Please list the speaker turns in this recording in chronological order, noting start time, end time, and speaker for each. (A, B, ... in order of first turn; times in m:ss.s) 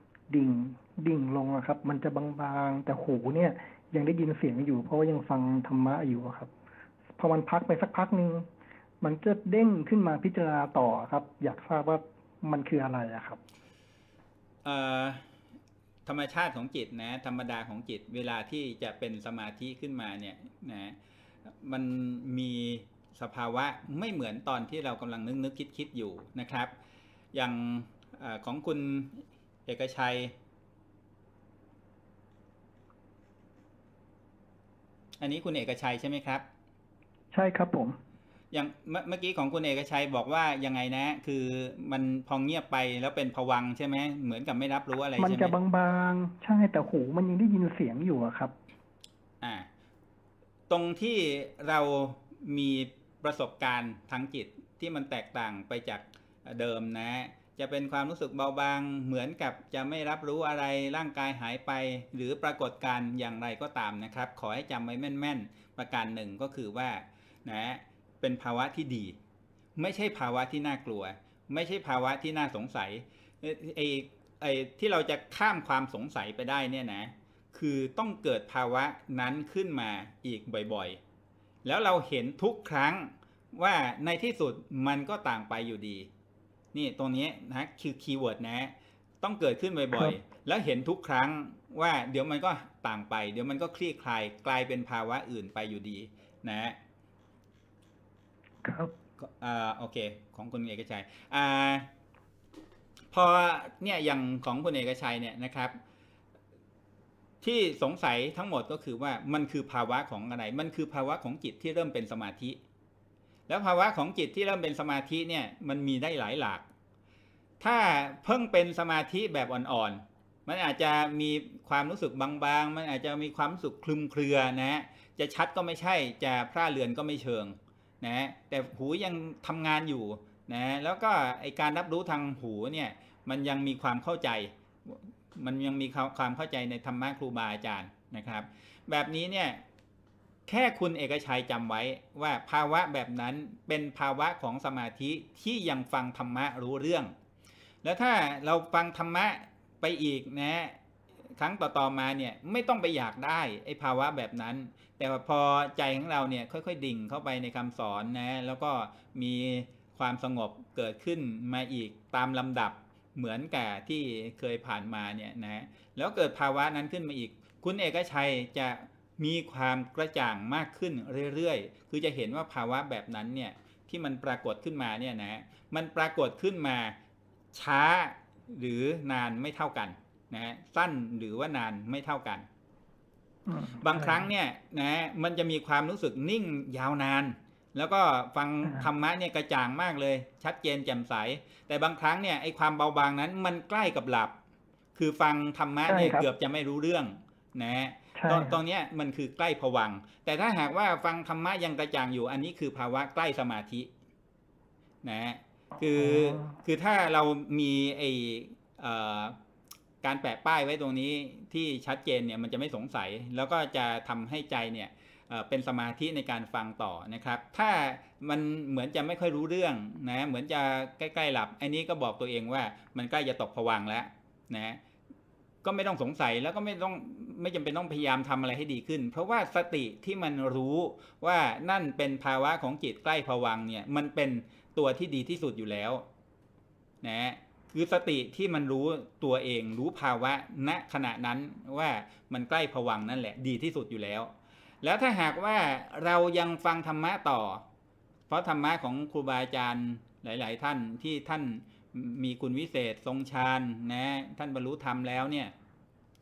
0:00.3-0:06.5 A
0:07.2-0:08.5 A
0:09.0-0:13.4 A
0:14.6-0:15.2 B
0:16.1-0:26.7 B
0:27.3-0:30.3 B
0:35.2-0:36.4 B
0:37.3-0:38.0 A
0:38.5-0:45.5 B
0:45.2-0:48.5 A
0:49.4-0:49.7 B
0:50.7-1:09.2 B
1:09.8-1:21.0 B
1:21.6-1:26.1 B
1:26.7-1:36.8 B
1:38.6-1:38.9 A
1:39.2-1:41.9 B
1:43.1-1:45.8 B
1:47.4-1:52.6 B
1:53.5-1:56.7 B
1:57.6-2:19.6 B
2:20.5-2:27.1 B
2:27.8-2:30.8 B
2:31.4-2:57.0 B
2:57.5-3:02.5 B
3:03.5-3:04.3 A
3:03.8-3:14.4 B
3:15.0-3:23.9 B
3:15.9-3:16.3 A
3:18.2-3:18.6 A
3:25.0-3:29.4 B
3:30.0-3:44.8 B
3:45.6-3:56.0 B
3:57.0-4:07.6 B
4:08.3-4:15.5 B